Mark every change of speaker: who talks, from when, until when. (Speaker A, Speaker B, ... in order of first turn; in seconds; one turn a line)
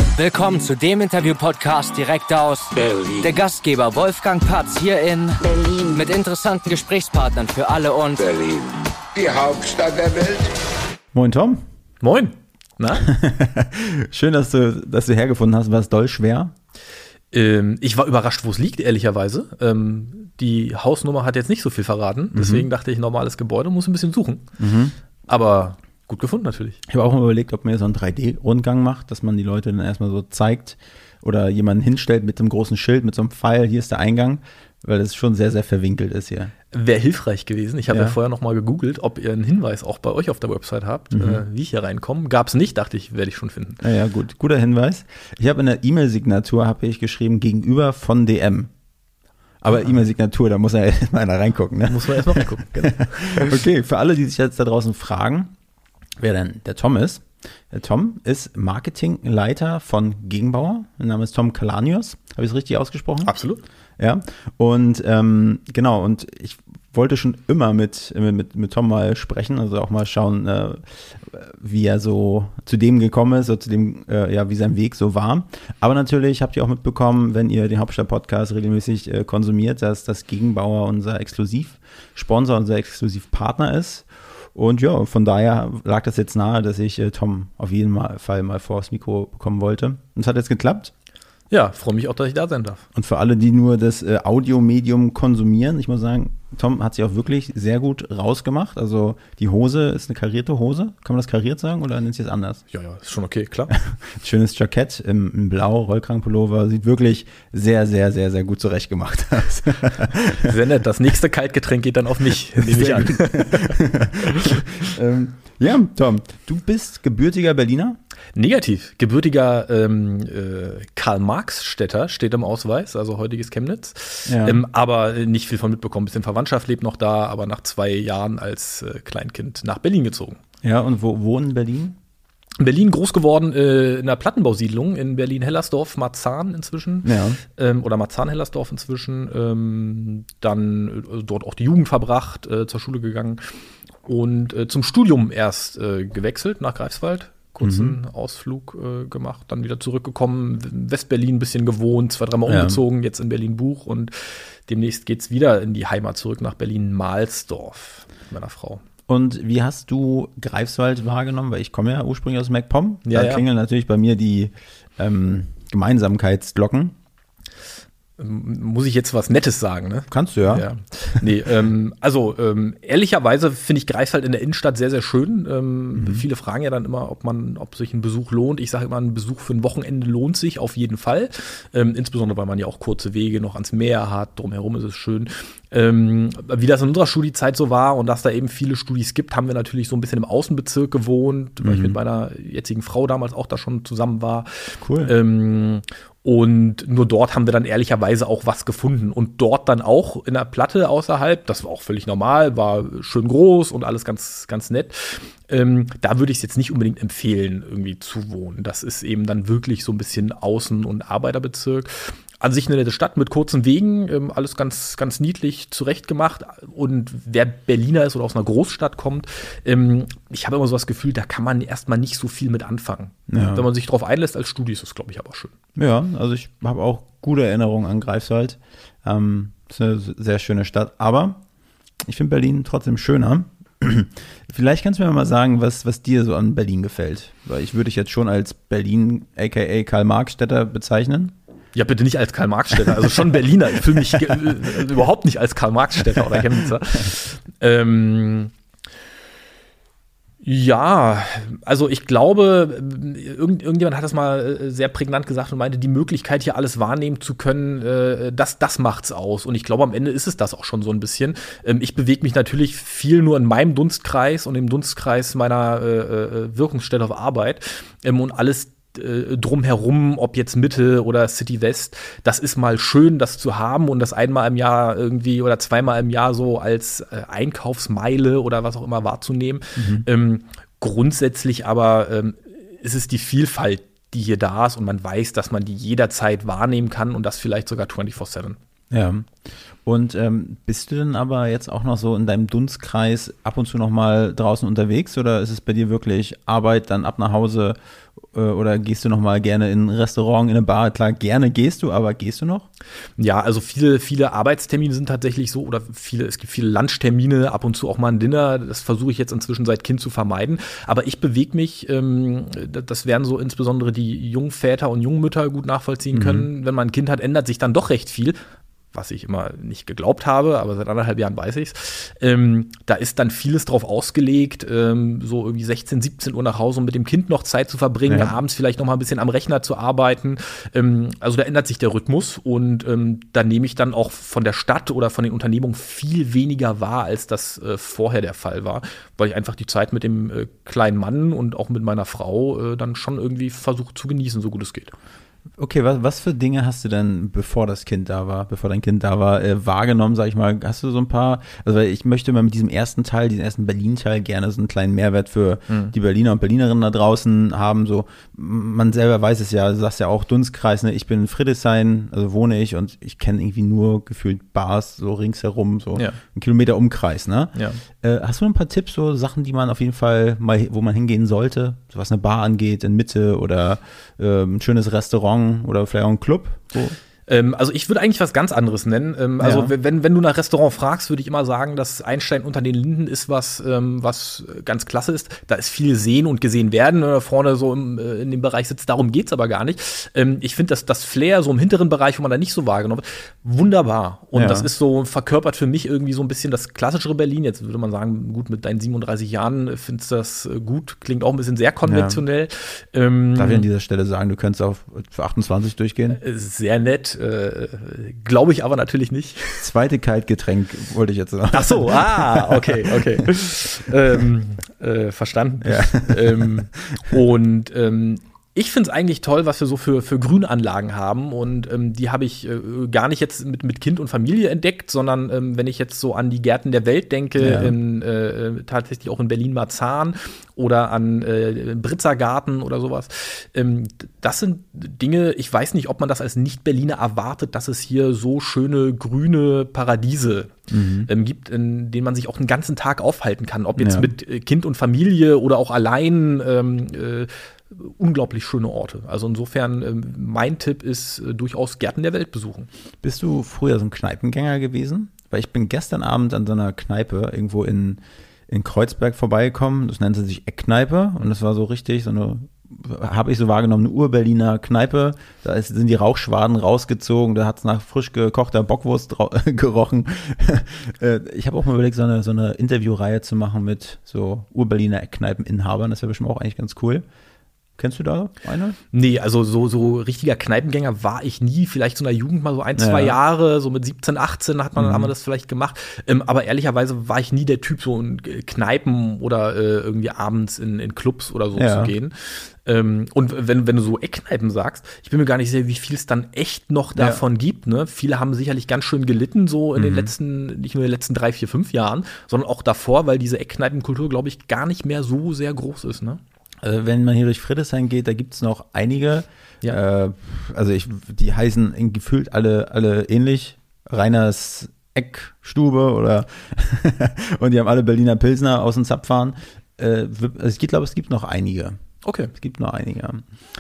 Speaker A: 0.1-8.2
Speaker B: 2.8-3.3
Speaker B: 8.2-10.5
Speaker C: 11.1-11.6
Speaker D: 12.0-13.1
Speaker C: 13.0-16.6
Speaker D: 17.3-24.5
Speaker C: 22.3-22.7
Speaker C: 24.6-24.9
Speaker D: 25.3-26.8
Speaker C: 26.9-36.5
Speaker D: 36.7-43.8
Speaker C: 37.9-38.2
Speaker C: 41.1-41.4
Speaker C: 43.8-48.7
Speaker C: 49.6-55.5
Speaker D: 51.9-53.5
Speaker C: 56.2-63.3
Speaker D: 63.2-63.6
Speaker C: 64.0-90.9
Speaker D: 91.5-92.8
Speaker C: 93.0-102.6
Speaker D: 102.7-103.7
Speaker C: 103.7-110.5
Speaker D: 110.3-114.7
Speaker C: 112.6-118.0
Speaker D: 118.3-130.4
Speaker C: 124.3-124.6
Speaker C: 130.6-132.0
Speaker D: 132.6-143.4
Speaker C: 137.0-137.4
Speaker D: 144.1-154.1
Speaker C: 147.6-148.0
Speaker C: 152.5-152.8
Speaker D: 154.7-158.8
Speaker C: 159.1-167.0
Speaker D: 163.1-163.4
Speaker D: 168.2-194.5
Speaker C: 170.1-171.3
Speaker C: 176.0-176.2
Speaker C: 191.6-192.0
Speaker C: 194.8-195.1
Speaker D: 195.0-225.5
Speaker C: 223.3-223.7
Speaker C: 225.8-231.4
Speaker C: 232.0-241.3
Speaker D: 241.8-248.5
Speaker C: 243.9-244.4
Speaker D: 250.4-288.6
Speaker C: 279.8-280.1
Speaker C: 288.9-289.3
Speaker C: 289.8-302.7
Speaker D: 303.2-318.4
Speaker C: 316.1-316.5
Speaker D: 318.9-344.9
Speaker C: 328.1-328.4
Speaker C: 345.6-377.0
Speaker D: 355.7-355.9
Speaker D: 367.6-367.8
Speaker D: 377.3-403.7
Speaker C: 379.4-379.7
Speaker C: 394.3-394.7
Speaker C: 401.9-402.2
Speaker C: 403.4-406.2
Speaker D: 406.1-409.6
Speaker C: 409.6-413.3
Speaker D: 411.5-452.7
Speaker C: 415.6-417.1
Speaker C: 427.4-427.8
Speaker C: 440.7-441.1
Speaker C: 443.8-444.1
Speaker C: 453.0-477.1
Speaker C: 477.8-478.8
Speaker D: 478.9-506.2
Speaker C: 482.8-483.2
Speaker C: 484.8-485.1
Speaker C: 491.6-491.9
Speaker C: 497.0-497.2
Speaker C: 499.8-500.1
Speaker C: 506.6-521.8
Speaker D: 522.0-522.3
Speaker C: 522.3-523.3